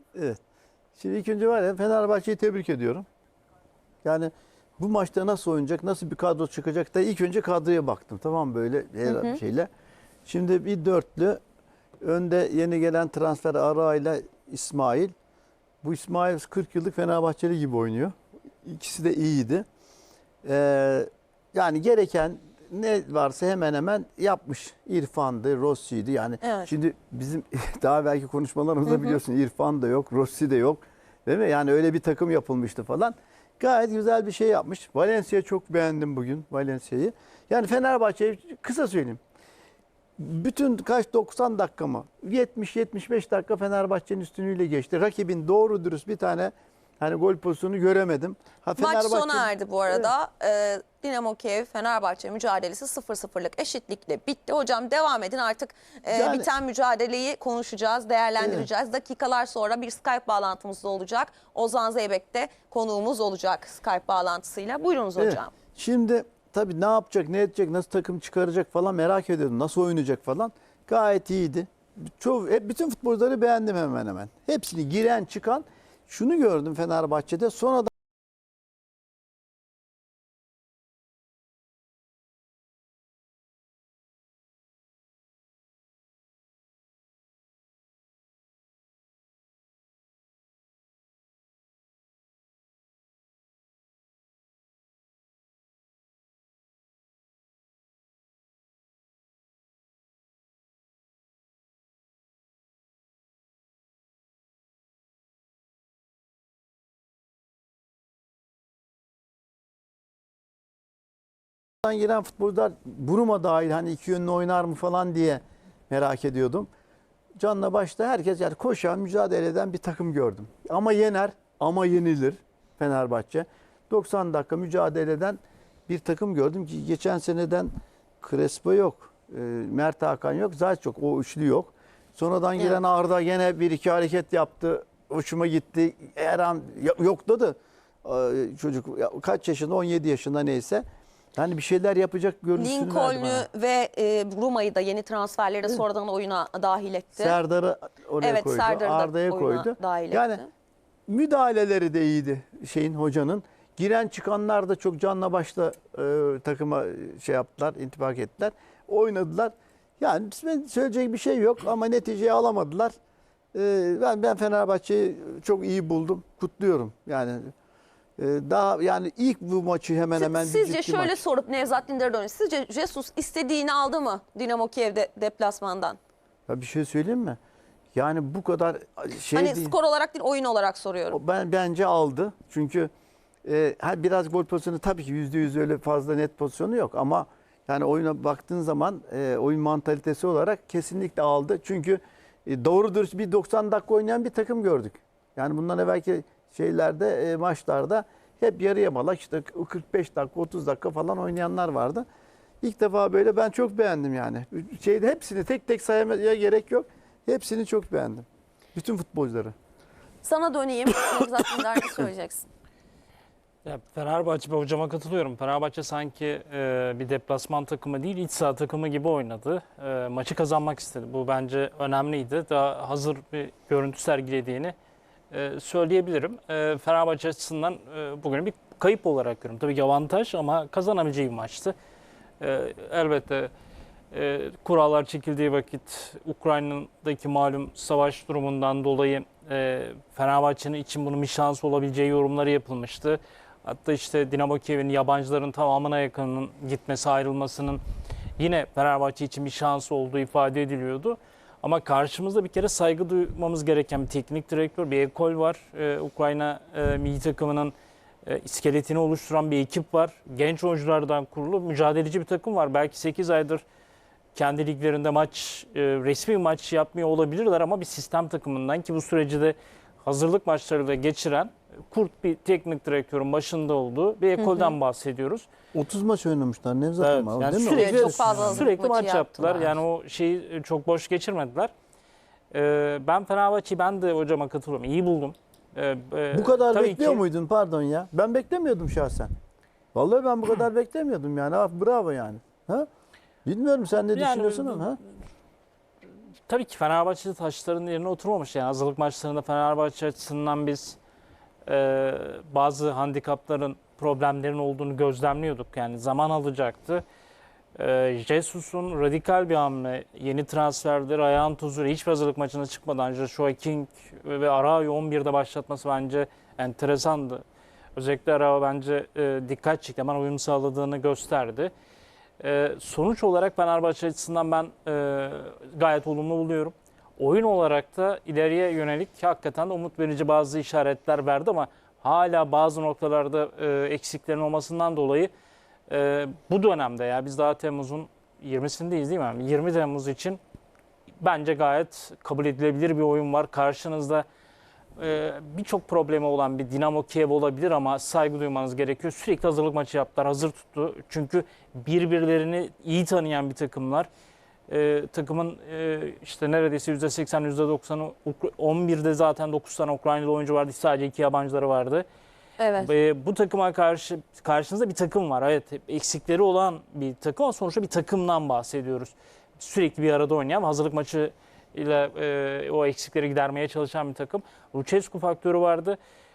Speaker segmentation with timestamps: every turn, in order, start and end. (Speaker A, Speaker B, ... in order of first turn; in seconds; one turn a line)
Speaker A: 0.1-0.4
Speaker A: 1.0-3.1
Speaker A: 4.0-9.7
Speaker B: 9.1-9.4
Speaker A: 10.3-11.4
Speaker A: 12.0-15.1
Speaker A: 15.8-19.6
Speaker A: 20.4-39.2
Speaker B: 26.4-26.7
Speaker B: 28.9-29.2
Speaker A: 40.2-50.1
Speaker B: 48.8-65.5
Speaker A: 56.1-56.5
Speaker A: 58.4-58.7
Speaker A: 65.2-77.9
Speaker A: 111.8-116.7
Speaker A: 117.4-140.8
Speaker A: 141.4-143.5
Speaker B: 142.6-147.4
Speaker A: 147.2-150.4
Speaker B: 148.2-150.5
Speaker A: 151.1-162.9
Speaker A: 163.5-167.5
Speaker A: 168.2-171.2
Speaker B: 170.2-176.0
Speaker A: 176.5-177.4
Speaker A: 177.9-179.7
Speaker B: 179.3-181.2
Speaker A: 181.1-182.9
Speaker A: 183.4-202.1
Speaker A: 202.6-209.6
Speaker B: 210.2-212.5
Speaker C: 213.7-224.8
Speaker C: 225.3-231.8
Speaker C: 232.4-233.5
Speaker C: 234.1-247.8
Speaker C: 248.4-257.7
Speaker C: 258.2-263.6
Speaker C: 264.4-275.5
Speaker B: 274.4-274.8
Speaker A: 275.7-278.7
Speaker C: 277.0-281.7
Speaker B: 277.7-279.7
Speaker C: 282.5-287.2
Speaker A: 286.3-289.3
Speaker A: 289.9-292.9
Speaker A: 293.4-295.0
Speaker C: 294.1-295.0
Speaker C: 296.5-301.0
Speaker C: 301.7-307.0
Speaker C: 307.8-317.4
Speaker C: 318.0-321.7
Speaker C: 322.4-335.3
Speaker C: 335.9-340.4
Speaker C: 341.2-344.3
Speaker C: 345.0-354.1
Speaker C: 354.7-362.1
Speaker B: 362.6-362.9
Speaker C: 362.8-376.0